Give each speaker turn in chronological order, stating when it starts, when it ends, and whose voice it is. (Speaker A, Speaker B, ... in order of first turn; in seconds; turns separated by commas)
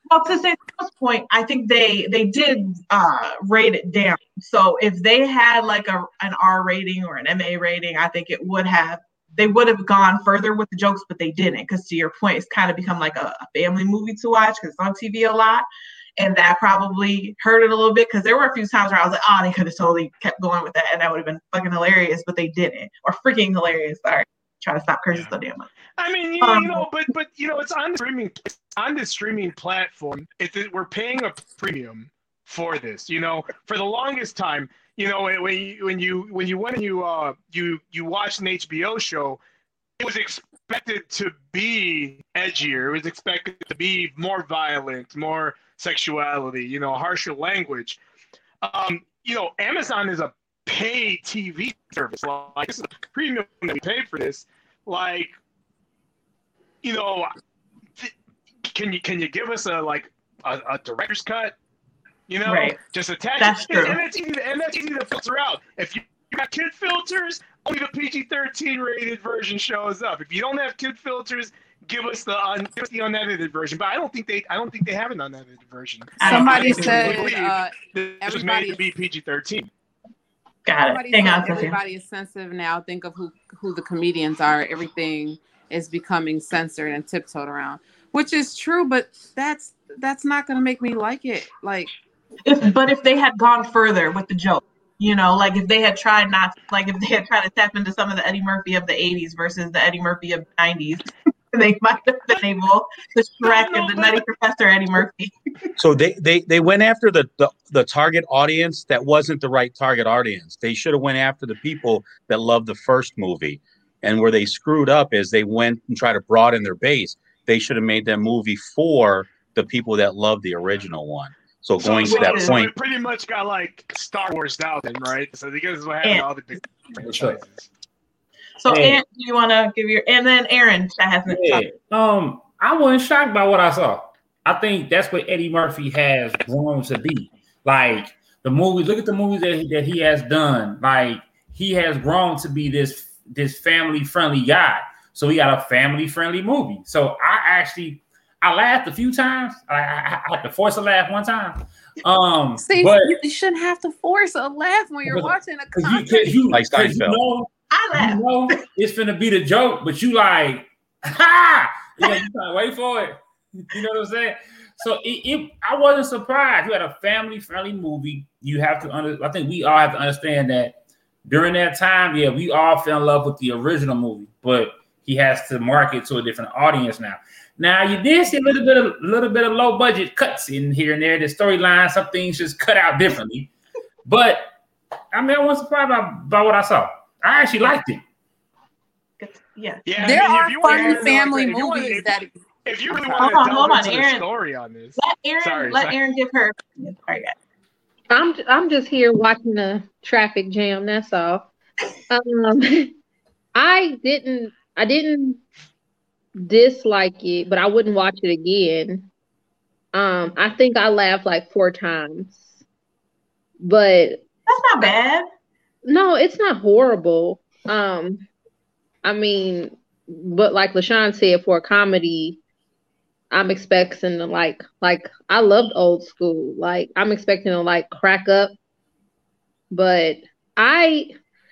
Speaker A: 0.1-15.7, Speaker A: 16.2-25.7, Speaker B: 26.0-39.4, Speaker A: 26.4-26.9, Speaker B: 40.0-48.0, Speaker B: 48.6-55.4, Speaker B: 56.8-57.3, Speaker B: 58.7-61.6, Speaker B: 62.3-79.7, Speaker A: 62.5-62.8, Speaker A: 63.4-64.0, Speaker A: 76.2-77.3, Speaker C: 76.2-78.9, Speaker A: 80.7-81.8, Speaker C: 80.8-91.9, Speaker A: 92.5-105.3, Speaker B: 103.4-104.2, Speaker D: 105.8-122.7, Speaker B: 121.8-127.7, Speaker A: 121.8-122.6, Speaker A: 126.0-126.3, Speaker E: 127.0-127.4, Speaker A: 128.6-131.7, Speaker E: 128.7-129.0, Speaker E: 131.3-153.2, Speaker C: 152.6-156.4, Speaker E: 155.1-183.5, Speaker D: 156.5-157.2, Speaker A: 157.7-158.6, Speaker E: 184.1-184.5, Speaker E: 185.1-188.0, Speaker A: 189.2-191.2, Speaker B: 189.9-196.0, Speaker C: 190.0-192.3, Speaker C: 192.9-193.3, Speaker A: 193.2-194.2, Speaker A: 195.0-197.4, Speaker F: 198.1-201.5, Speaker F: 202.1-202.9, Speaker F: 203.6-205.4, Speaker F: 206.4-209.1, Speaker F: 209.9-212.5, Speaker F: 213.6-214.2, Speaker A: 214.5-215.2, Speaker F: 215.8-218.3, Speaker F: 219.0-222.4, Speaker F: 223.3-228.5, Speaker F: 229.7-231.1